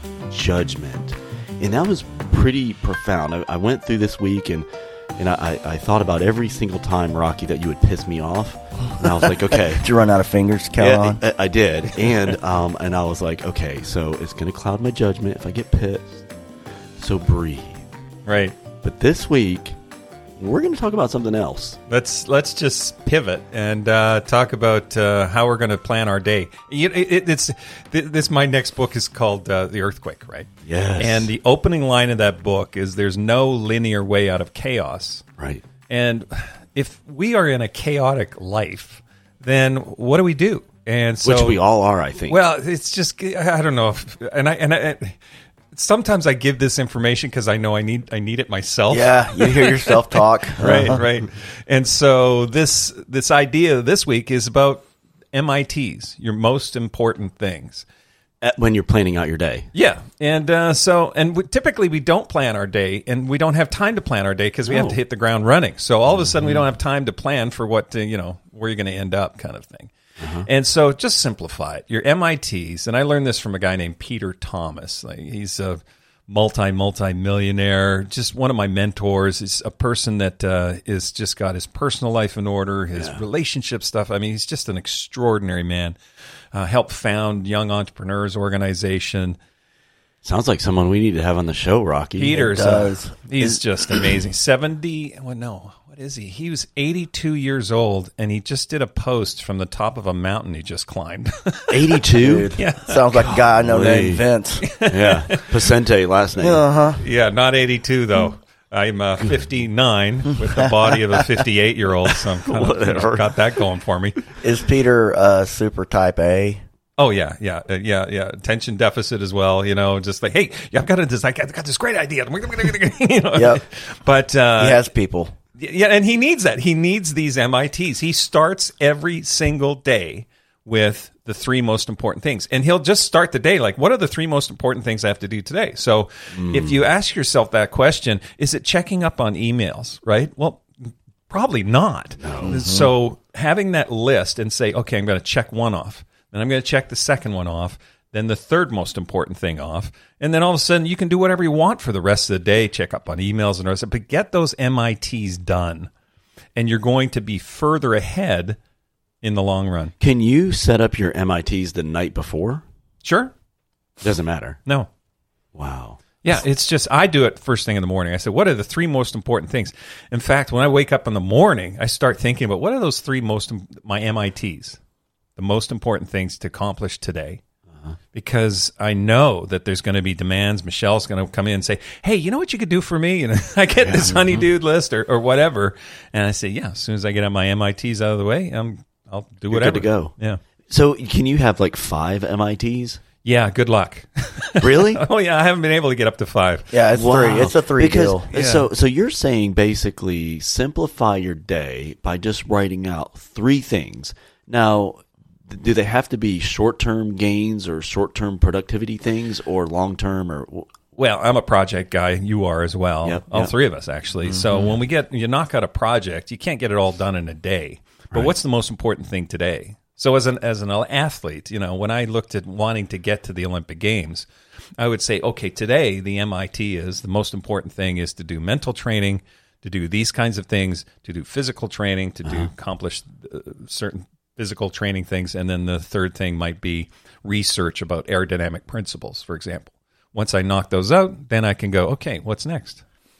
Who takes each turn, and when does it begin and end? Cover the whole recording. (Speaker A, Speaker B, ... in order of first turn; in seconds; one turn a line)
Speaker A: 0.3-9.8
Speaker B: 9.1-11.2
Speaker A: 10.8-16.2
Speaker A: 17.0-17.8
Speaker C: 18.2-18.6
Speaker A: 18.8-19.8
Speaker A: 20.4-21.8
Speaker C: 21.9-35.2
Speaker A: 30.6-31.3
Speaker A: 35.4-35.6
Speaker C: 35.9-41.6
Speaker A: 41.2-42.4
Speaker C: 42.3-45.2
Speaker C: 45.7-57.9
Speaker B: 48.9-51.0
Speaker A: 58.4-59.7
Speaker C: 59.7-69.9
Speaker A: 64.6-65.0
Speaker A: 66.2-66.6
Speaker A: 70.2-70.5
Speaker C: 70.4-86.0
Speaker A: 83.0-83.2
Speaker C: 86.5-89.4
Speaker A: 90.2-92.4
Speaker C: 92.2-103.4
Speaker B: 92.3-93.6
Speaker A: 101.7-102.5
Speaker B: 102.2-104.6
Speaker A: 103.2-104.2
Speaker C: 104.6-105.5
Speaker A: 104.9-106.6
Speaker B: 106.4-107.0
Speaker C: 107.0-114.2
Speaker A: 112.3-113.4
Speaker B: 114.4-116.6
Speaker C: 117.0-124.9
Speaker B: 123.3-123.6
Speaker B: 124.6-125.3
Speaker C: 125.6-155.9
Speaker A: 136.3-136.7
Speaker A: 142.2-142.6
Speaker B: 142.4-142.9
Speaker C: 156.5-158.6
Speaker C: 159.2-159.9
Speaker A: 160.0-162.6
Speaker C: 163.0-163.3
Speaker A: 164.0-164.6
Speaker A: 165.5-166.0
Speaker C: 166.2-174.8
Speaker C: 175.3-177.4
Speaker C: 178.1-190.4
Speaker A: 183.8-184.4
Speaker A: 189.5-190.1
Speaker A: 190.7-193.0
Speaker C: 193.2-196.8
Speaker A: 194.6-195.0
Speaker B: 196.7-198.2
Speaker A: 196.9-210.7
Speaker C: 198.3-198.7
Speaker C: 210.9-224.3
Speaker A: 213.0-213.5
Speaker C: 224.8-242.8